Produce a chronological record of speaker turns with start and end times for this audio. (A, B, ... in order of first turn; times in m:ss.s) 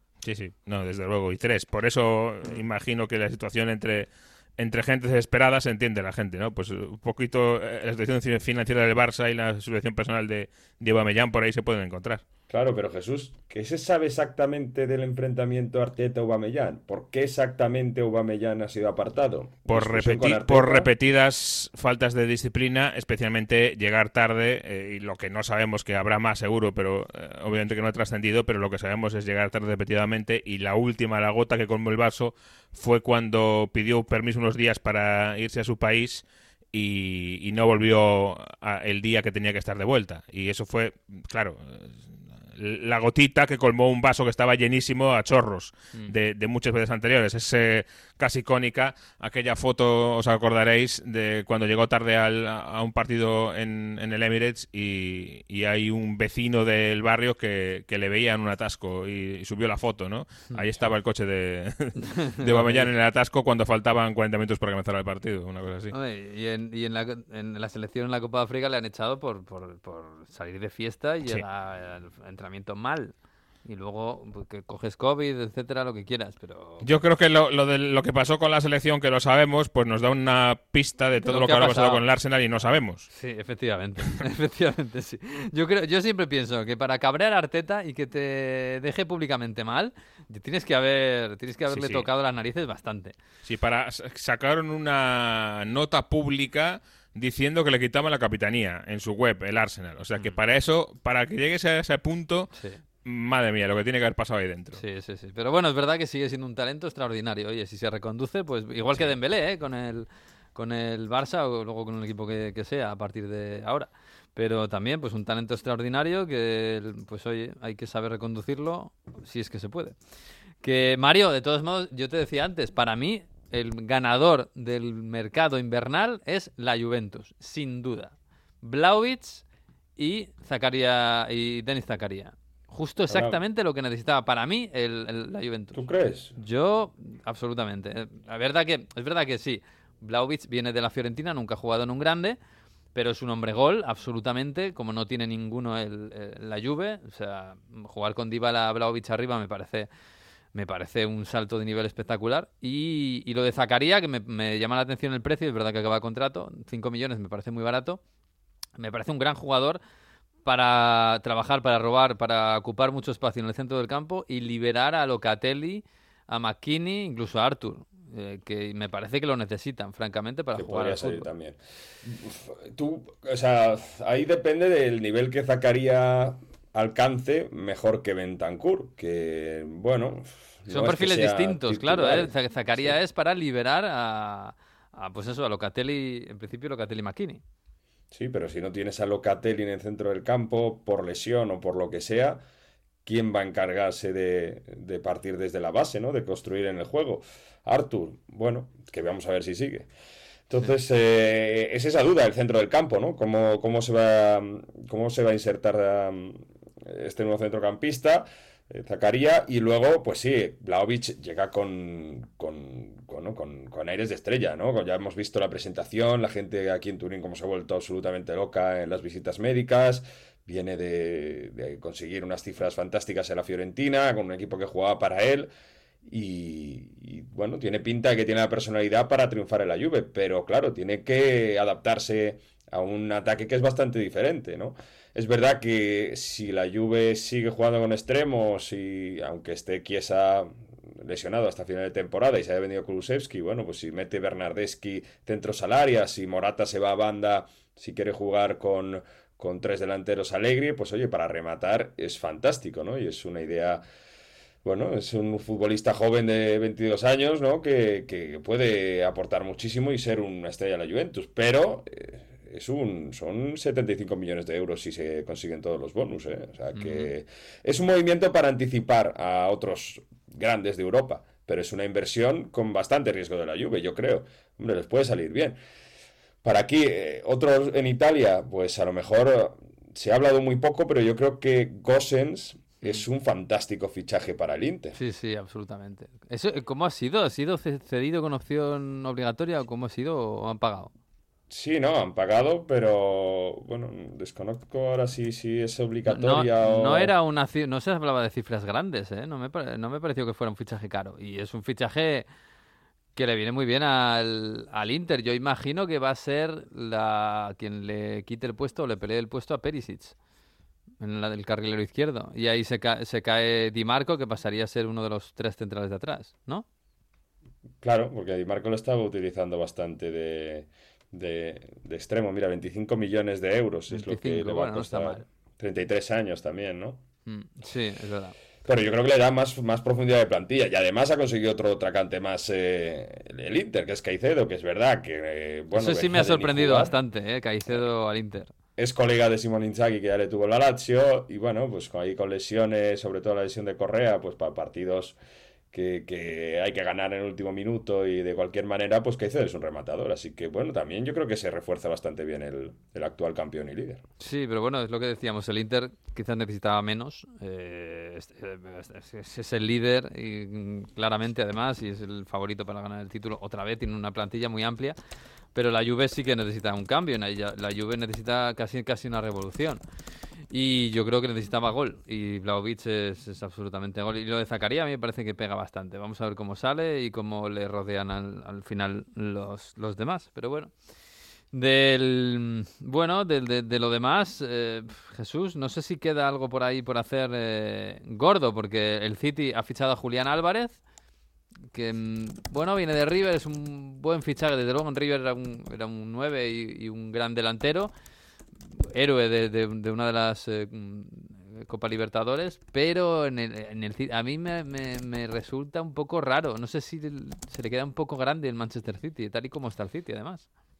0:00.2-0:12.2 A
0:12.5-0:20.9 B
0:19.7-1:05.9 A
1:02.3-1:02.9 C
1:05.9-1:13.1 C
1:13.6-1:16.9 C
1:16.8-1:23.1 A
1:21.2-1:22.0 C
1:23.1-1:33.2 C
1:31.7-1:32.0 A
1:33.4-1:42.5 A
1:42.5-1:42.8 C
1:43.0-1:44.8 A
1:44.8-2:00.0 C
2:00.6-2:09.4 C
2:10.0-2:15.8 C
2:13.1-2:13.4 B
2:15.7-2:16.3 B
2:16.4-2:22.4 C
2:22.9-2:29.9 C
2:30.5-2:38.0 C
2:38.8-2:39.8 C
2:40.4-2:51.3 C
2:50.5-3:02.9 B
3:00.7-3:07.4 C
3:08.1-3:12.4 B
3:13.0-3:19.9 B
3:20.5-3:45.5 B
3:46.0-4:13.8 B
4:14.6-4:35.6 B
4:26.7-4:27.1 C
4:36.4-4:45.0 B
4:45.0-4:50.9 C
4:51.5-4:57.1 B
4:56.0-5:02.2 C
5:03.2-5:10.1 C
5:11.0-5:16.6 C
5:17.8-5:27.0 B
5:23.9-5:25.2 C
5:27.2-5:28.3 C
5:28.6-5:37.0 B
5:35.7-5:38.5 C
5:38.8-5:45.2 B
5:45.7-5:54.0 B
5:54.2-6:04.9 C
6:05.5-6:09.8 C
6:10.5-6:20.7 C
6:21.5-6:30.8 C
6:31.7-6:37.9 C
6:38.9-6:50.4 C